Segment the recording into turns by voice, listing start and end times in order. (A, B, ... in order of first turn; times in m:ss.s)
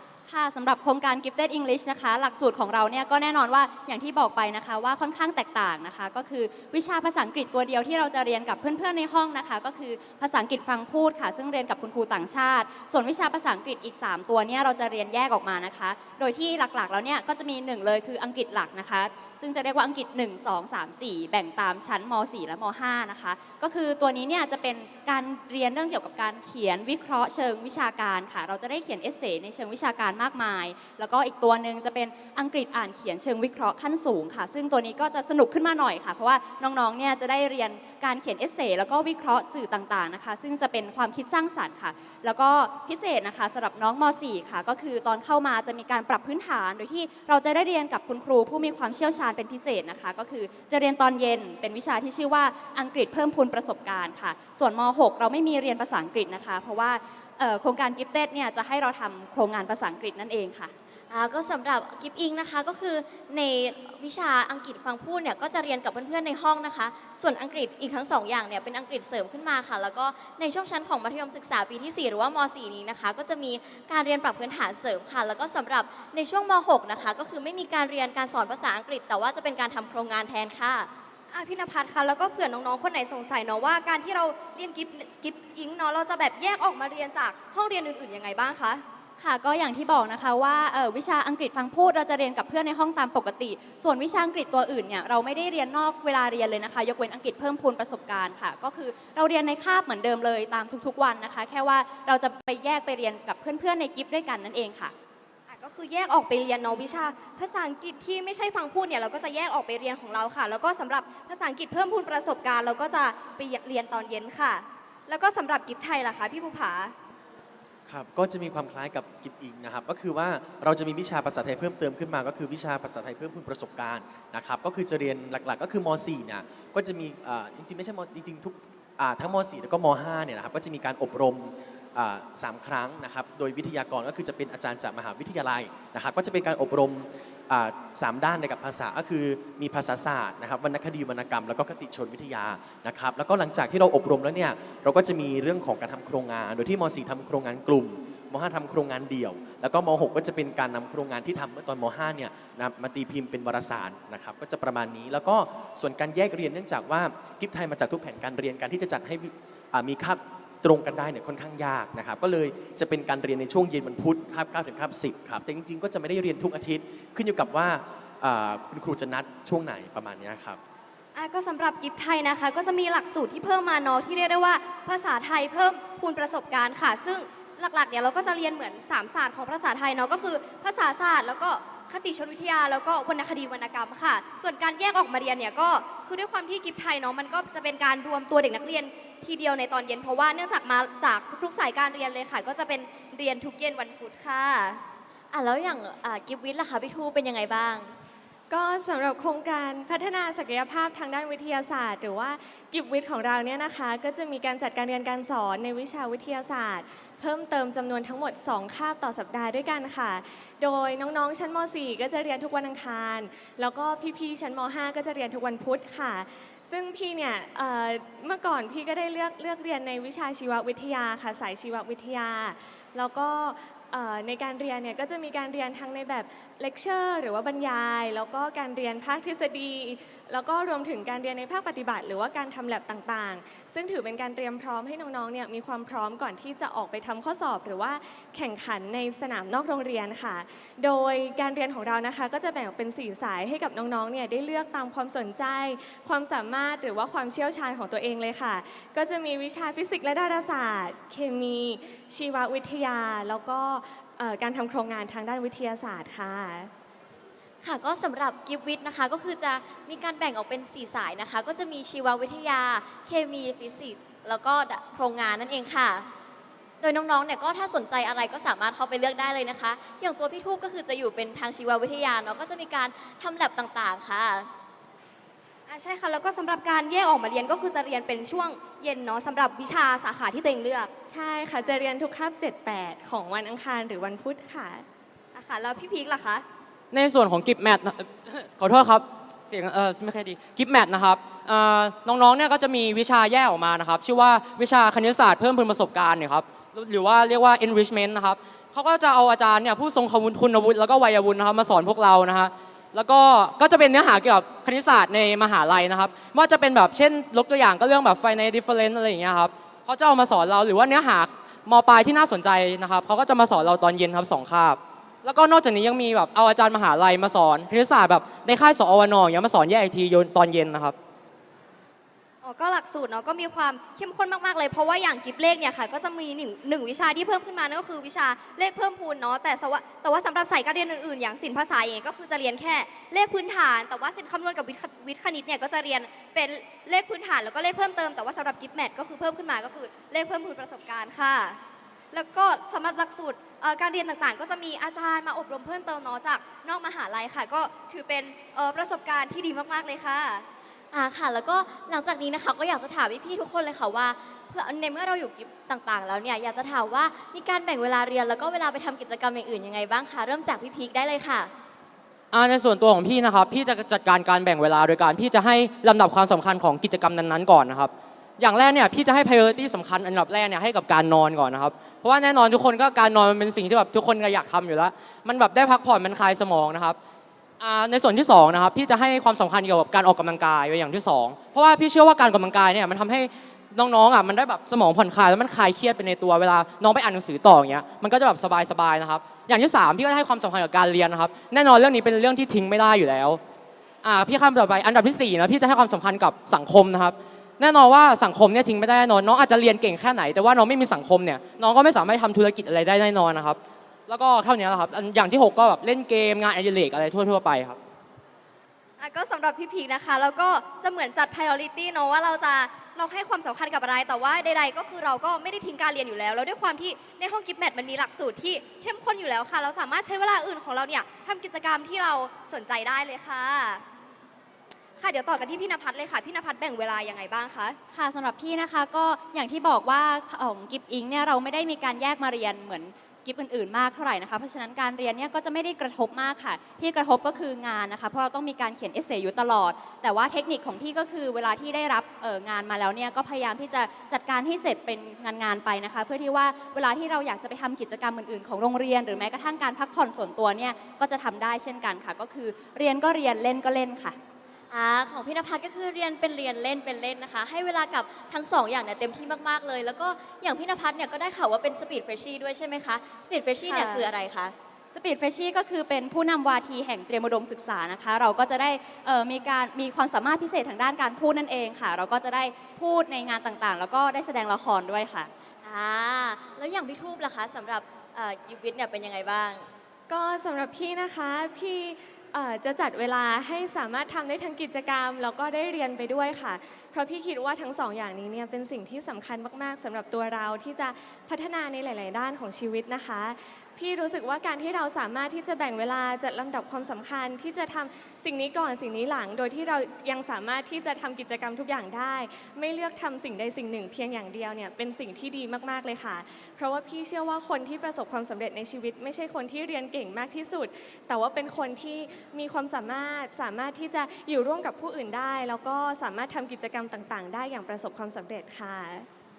0:00.3-1:00.7 A
1:01.1-1:20.9 B
1:21.3-1:28.8 C
1:29.2-1:44.9 A
1:45.5-1:56.9 C
1:57.9-2:50.6 D
2:51.1-3:14.8 C
3:15.3-3:17.9 B
3:18.5-4:16.7 E
4:17.6-4:26.0 B
4:26.8-4:34.5 B
4:35.7-4:40.9 C
4:41.1-4:44.8 E
4:45.3-4:46.4 C
4:46.9-5:20.9 F
5:22.4-5:41.6 C
5:42.1-5:50.4 C
5:50.9-6:01.5 B
6:02.3-6:17.0 F
6:17.6-6:33.4 F
6:34.0-6:47.8 F
6:49.0-7:03.8 C
7:05.0-7:07.8 C
7:07.9-7:34.2 A
7:34.7-7:44.5 B
7:43.6-7:44.1 A
7:44.9-7:55.3 A
7:55.6-7:59.6 B
8:00.1-8:39.1 E